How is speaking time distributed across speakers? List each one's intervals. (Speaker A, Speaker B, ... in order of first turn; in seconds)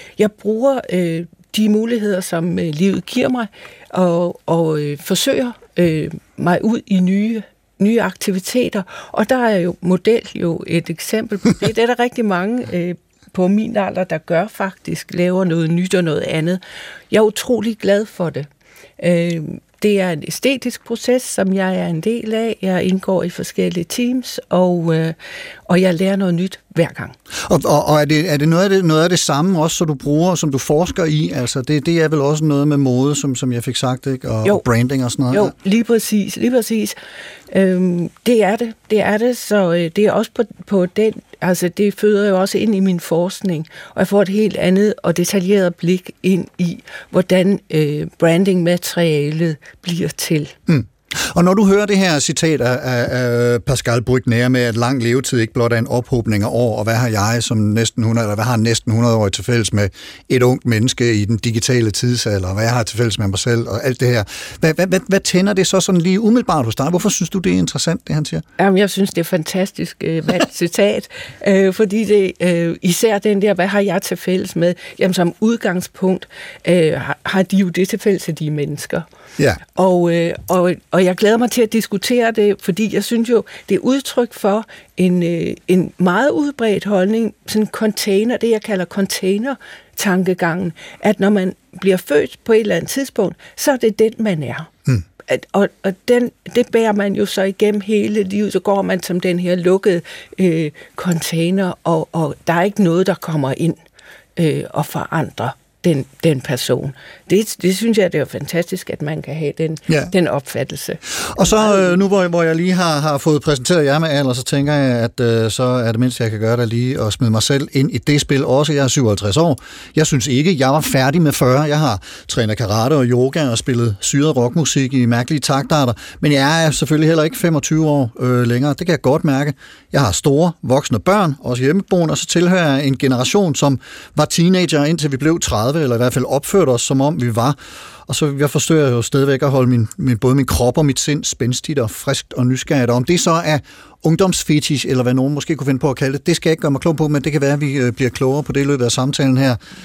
Speaker A: 0.2-18.5, 19.0-25.1, 25.7-27.1, 35.3-36.9, 37.5-50.5, 68.6-79.0, 79.7-94.7, 95.3-103.8, 104.4-112.0
Speaker B: 27.4-35.5, 50.7-68.4, 111.2-149.6